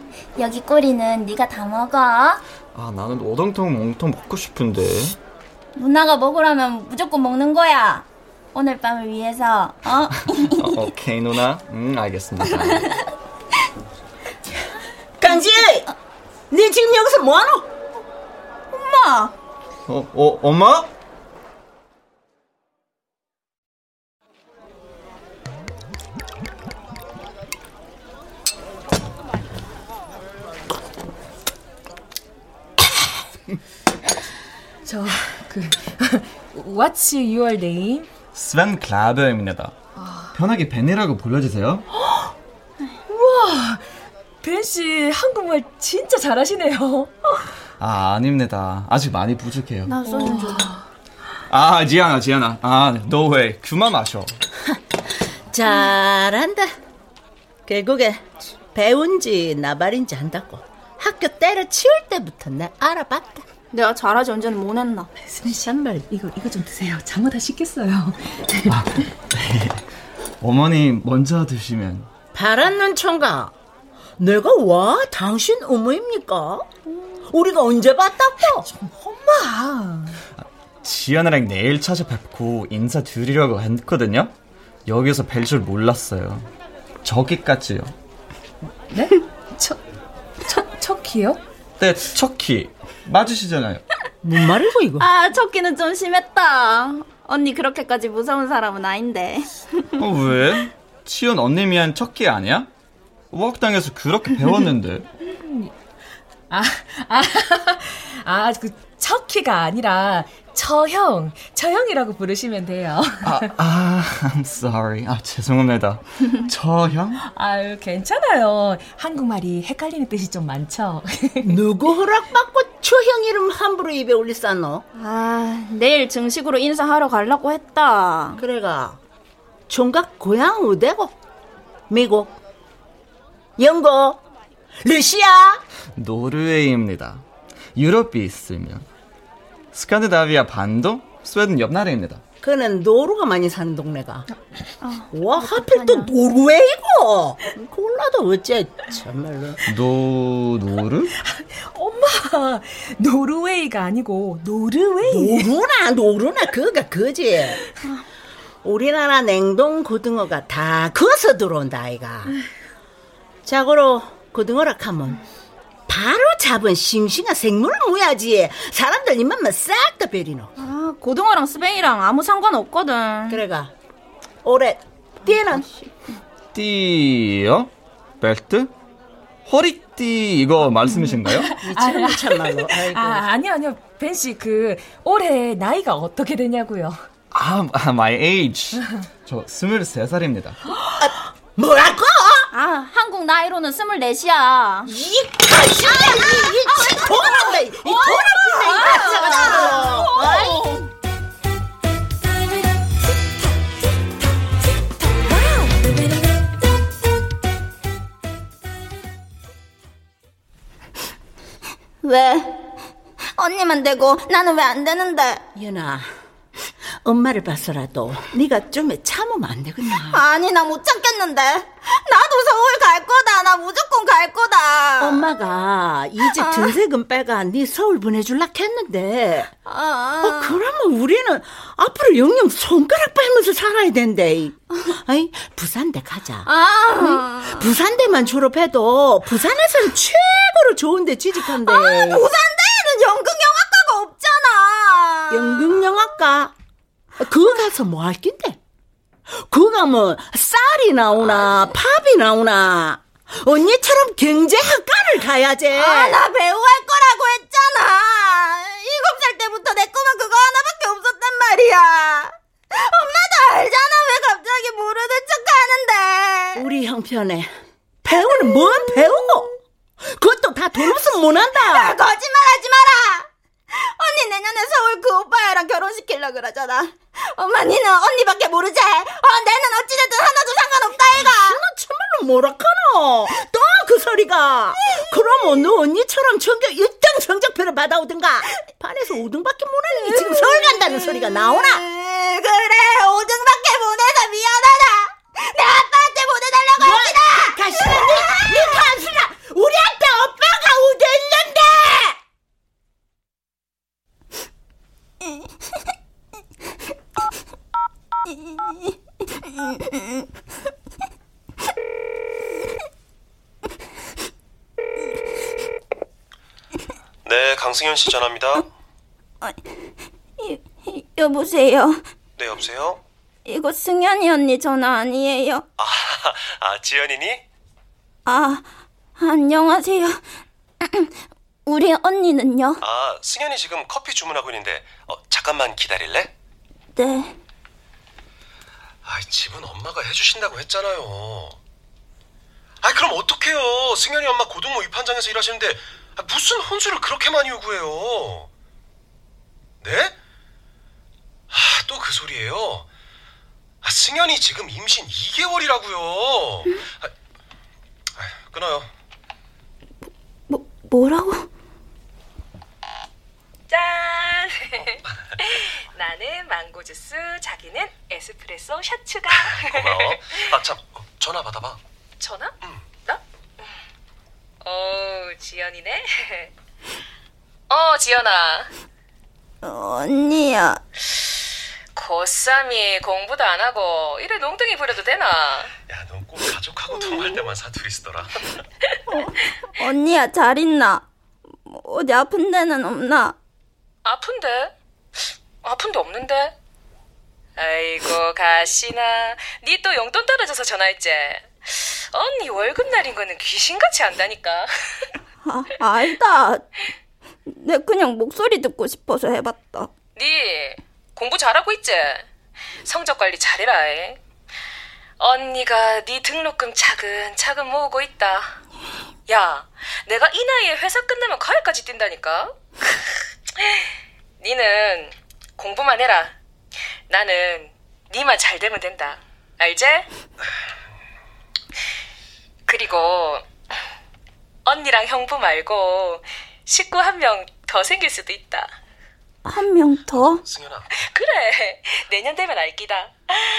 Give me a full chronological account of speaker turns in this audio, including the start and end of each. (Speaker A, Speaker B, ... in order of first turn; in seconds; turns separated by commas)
Speaker A: 0.3-2.4, Speaker B: 2.7-5.2, Speaker A: 5.8-10.9, Speaker B: 10.4-13.0, Speaker C: 15.2-15.9, Speaker C: 16.5-17.7, Speaker A: 18.7-19.3, Speaker B: 19.9-20.9, Speaker D: 34.9-38.1, Speaker B: 38.3-39.7, Speaker D: 40.0-40.3, Speaker B: 40.3-41.9, Speaker D: 43.1-43.8, Speaker D: 44.4-47.4, Speaker B: 47.8-49.9, Speaker A: 49.9-50.7, Speaker D: 50.0-50.8, Speaker B: 51.5-54.3, Speaker C: 55.5-56.7, Speaker C: 57.7-63.4, Speaker A: 63.7-65.1, Speaker C: 65.4-66.0, Speaker D: 66.1-68.8, Speaker B: 68.7-69.8, Speaker B: 70.4-72.1, Speaker C: 72.3-73.5, Speaker C: 74.2-76.7, Speaker C: 77.2-78.7, Speaker D: 78.6-80.2, Speaker B: 80.4-84.3, Speaker B: 84.8-86.5, Speaker B: 87.0-87.9, Speaker D: 88.9-89.8, Speaker D: 90.4-91.4, Speaker B: 91.8-93.8, Speaker C: 94.2-95.1, Speaker A: 95.0-99.8, Speaker B: 100.0-102.7, Speaker B: 103.3-105.0, Speaker D: 105.4-105.7, Speaker D: 106.5-113.5, Speaker B: 113.2-117.2, Speaker D: 117.2-121.5, Speaker C: 121.4-124.8, Speaker A: 125.0-128.4, Speaker C: 128.4-129.0, Speaker C: 129.7-131.2, Speaker C: 131.9-132.3, Speaker C: 133.6-134.2, Speaker C: 134.8-135.6, Speaker B: 135.9-138.8, Speaker B: 139.7-142.2, Speaker C: 142.4-144.3, Speaker A: 144.8-146.1, Speaker C: 145.1-149.6, Speaker B: 149.7-151.1, Speaker D: 151.3-155.5, Speaker C: 155.1-157.6, Speaker C: 158.6-162.4, Speaker C: 163.4-165.2, Speaker C: 165.9-170.5, Speaker A: 170.6-173.4, Speaker C: 173.3-173.7, Speaker C: 174.4-175.7, Speaker A: 175.3-175.9, Speaker B: 176.5-178.7, Speaker B: 179.5-181.5, Speaker D: 181.0-187.0, Speaker C: 181.6-183.3, Speaker B: 187.3-190.6, Speaker C: 191.0-192.5, Speaker A: 192.5-194.9, Speaker C: 194.8-200.4, Speaker A: 195.9-200.8, Speaker A: 212.0-212.5, Speaker A: 213.3-215.4, Speaker C: 215.5-216.1, Speaker C: 217.0-220.2, Speaker A: 220.1-225.2, Speaker C: 225.0-229.5, Speaker A: 226.2-226.7, Speaker A: 229.7-230.6, Speaker C: 230.2-242.2, Speaker A: 236.4-237.7, Speaker A: 241.6-245.7, Speaker C: 245.3-246.5, Speaker C: 247.2-248.6, Speaker C: 249.3-256.2, Speaker A: 255.7-266.6, Speaker C: 266.5-267.5, Speaker C: 268.0-271.9, Speaker A: 268.1-269.3, Speaker A: 271.5-281.6, Speaker C: 281.1-291.8, Speaker A: 290.4-298.5, Speaker C: 296.8-302.2, Speaker E: 317.2-318.6, Speaker A: 320.4-322.0, Speaker E: 322.4-323.0, Speaker A: 323.4-325.6, Speaker E: 325.8-327.4, Speaker A: 328.2-328.6, Speaker A: 329.2-330.2, Speaker A: 330.8-331.1, Speaker A: 331.6-332.8, Speaker E: 332.8-336.3, Speaker A: 336.9-337.4, Speaker E: 339.0-341.6, Speaker E: 342.8-348.5, Speaker E: 349.8-350.1, Speaker E: 351.5-352.9, Speaker E: 353.8-357.1, Speaker E: 358.2-358.9, Speaker A: 360.5-361.5, Speaker D: 363.7-370.2, Speaker E: 369.3-371.8, Speaker D: 372.2-372.5, Speaker D: 374.6-376.5, Speaker D: 377.7-378.7, Speaker A: 379.6-380.8, Speaker D: 381.9-385.7, Speaker E: 385.9-388.3, Speaker A: 389.1-391.0, Speaker A: 391.6-393.3, Speaker D: 394.0-394.7, Speaker D: 395.6-396.5, Speaker D: 397.6-404.7, Speaker A: 405.4-406.6, Speaker A: 407.4-409.9, Speaker D: 410.2-412.2, Speaker D: 412.8-414.2, Speaker D: 415.2-418.5, Speaker D: 419.3-422.6, Speaker D: 424.4-426.3, Speaker D: 427.1-430.1, Speaker D: 432.7-433.4, Speaker D: 434.6-438.7, Speaker A: 439.4-440.4, Speaker E: 440.0-440.9, Speaker D: 441.1-443.1